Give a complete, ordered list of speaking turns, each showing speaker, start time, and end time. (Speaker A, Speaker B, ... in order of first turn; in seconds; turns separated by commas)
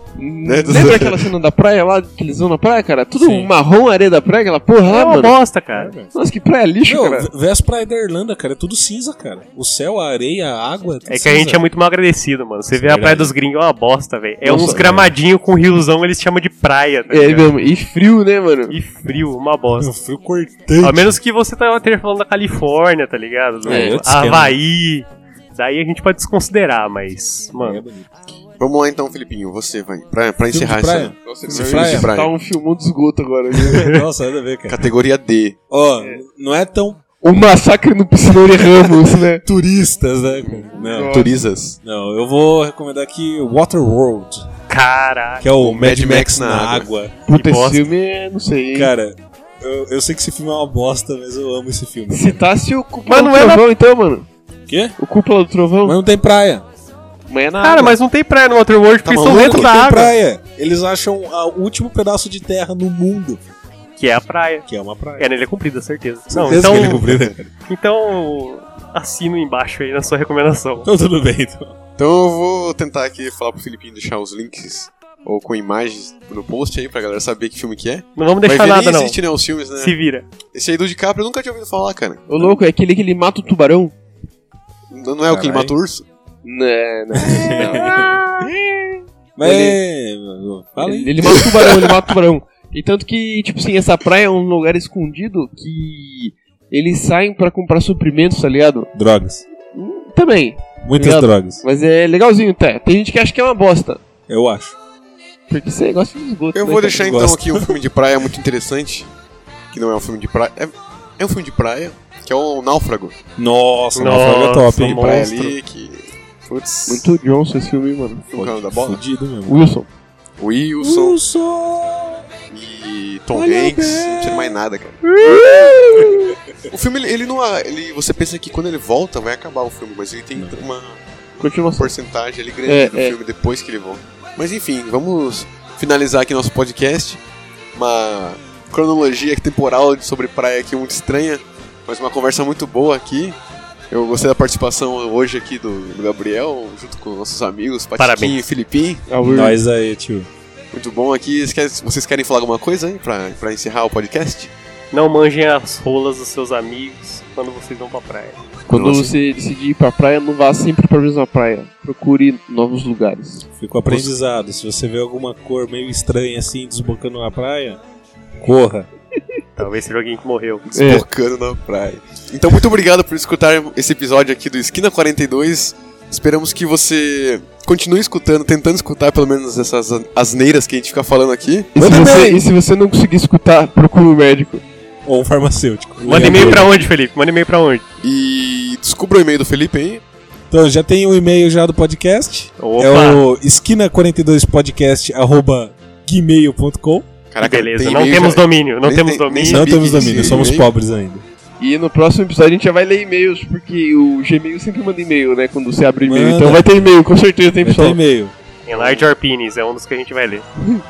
Speaker A: 0.2-5.4, Speaker B: 0.4-1.3, Speaker C: 3.2-3.5, Speaker D: 4.8-6.0, Speaker C: 5.7-6.1, Speaker A: 6.1-7.3, Speaker C: 6.8-11.6, Speaker D: 11.1-17.5, Speaker C: 12.7-13.3, Speaker C: 14.4-15.1, Speaker A: 17.1-18.8, Speaker D: 18.7-19.9, Speaker C: 19.8-21.2, Speaker D: 20.8-27.8, Speaker C: 23.6-24.6, Speaker A: 23.7-24.0, Speaker C: 27.5-28.1, Speaker B: 28.6-32.3, Speaker C: 30.5-32.1, Speaker A: 31.2-33.9, Speaker C: 33.6-34.9, Speaker D: 33.7-34.0, Speaker B: 34.7-35.6, Speaker C: 35.7-37.0, Speaker A: 37.2-39.4, Speaker C: 39.4-41.3, Speaker B: 40.4-41.8, Speaker A: 40.8-41.3, Speaker C: 41.8-44.5, Speaker D: 44.7-45.5, Speaker C: 45.4-47.2, Speaker B: 45.6-46.9, Speaker A: 47.3-48.9, Speaker D: 47.3-47.9, Speaker C: 48.7-52.4, Speaker A: 52.1-54.3, Speaker D: 53.0-53.6, Speaker C: 54.7-55.0, Speaker A: 55.0-56.0, Speaker C: 55.8-56.6, Speaker A: 57.3-58.0, Speaker D: 57.6-60.1, Speaker B: 59.0-59.7, Speaker C: 59.2-63.4, Speaker D: 64.0-67.0, Speaker C: 64.7-65.3, Speaker B: 66.3-67.4, Speaker C: 66.4-67.5, Speaker D: 67.7-70.9, Speaker C: 70.8-71.7, Speaker B: 72.0-80.0, Speaker D: 78.2-79.2, Speaker D: 79.8-80.2, Speaker B: 80.5-82.6, Speaker A: 82.3-83.9, Speaker B: 84.9-86.0, Speaker C: 85.3-85.8, Speaker A: 86.4-88.0, Speaker C: 87.2-88.2, Speaker C: 89.4-92.2, Speaker A: 89.4-89.8, Speaker A: 90.8-98.9, Speaker C: 98.9-99.4, Speaker A: 99.7-104.0, Speaker C: 100.8-101.6, Speaker C: 104.3-104.8, Speaker A: 105.5-107.3, Speaker B: 106.5-109.1, Speaker C: 107.0-107.7, Speaker B: 109.7-113.2, Speaker C: 113.4-115.5, Speaker D: 113.9-115.5, Speaker B: 114.8-117.1, Speaker A: 116.9-118.3, Speaker B: 118.3-119.0, Speaker C: 118.3-119.7, Speaker A: 119.5-119.9, Speaker B: 120.4-121.2, Speaker C: 120.8-122.3, Speaker B: 122.5-125.0, Speaker C: 123.3-124.6, Speaker A: 125.0-126.3, Speaker C: 125.9-126.3, Speaker B: 126.7-131.0, Speaker C: 130.3-130.6, Speaker A: 131.4-131.9, Speaker B: 131.8-137.2, Speaker A: 132.6-133.2, Speaker B: 137.7-143.4, Speaker B: 143.9-149.0, Speaker D: 148.0-148.4, Speaker A: 149.1-149.6, Speaker C: 149.2-150.3, Speaker B: 150.7-154.5, Speaker D: 154.9-158.4, Speaker A: 158.7-163.5, Speaker B: 158.7-159.1, Speaker C: 163.5-167.8, Speaker B: 163.8-164.1, Speaker C: 168.4-168.9, Speaker D: 169.6-170.6, Speaker B: 170.7-182.1, Speaker A: 170.7-171.0, Speaker A: 181.7-184.6, Speaker C: 181.8-182.4, Speaker C: 185.0-186.8, Speaker D: 186.0-187.8, Speaker B: 188.0-190.0, Speaker C: 190.5-197.1, Speaker D: 192.6-193.2, Speaker B: 197.3-200.7, Speaker D: 197.4-200.4, Speaker C: 199.5-201.2, Speaker A: 201.6-208.0, Speaker C: 206.0-206.7, Speaker C: 207.6-208.3, Speaker D: 208.7-210.4, Speaker B: 208.7-209.1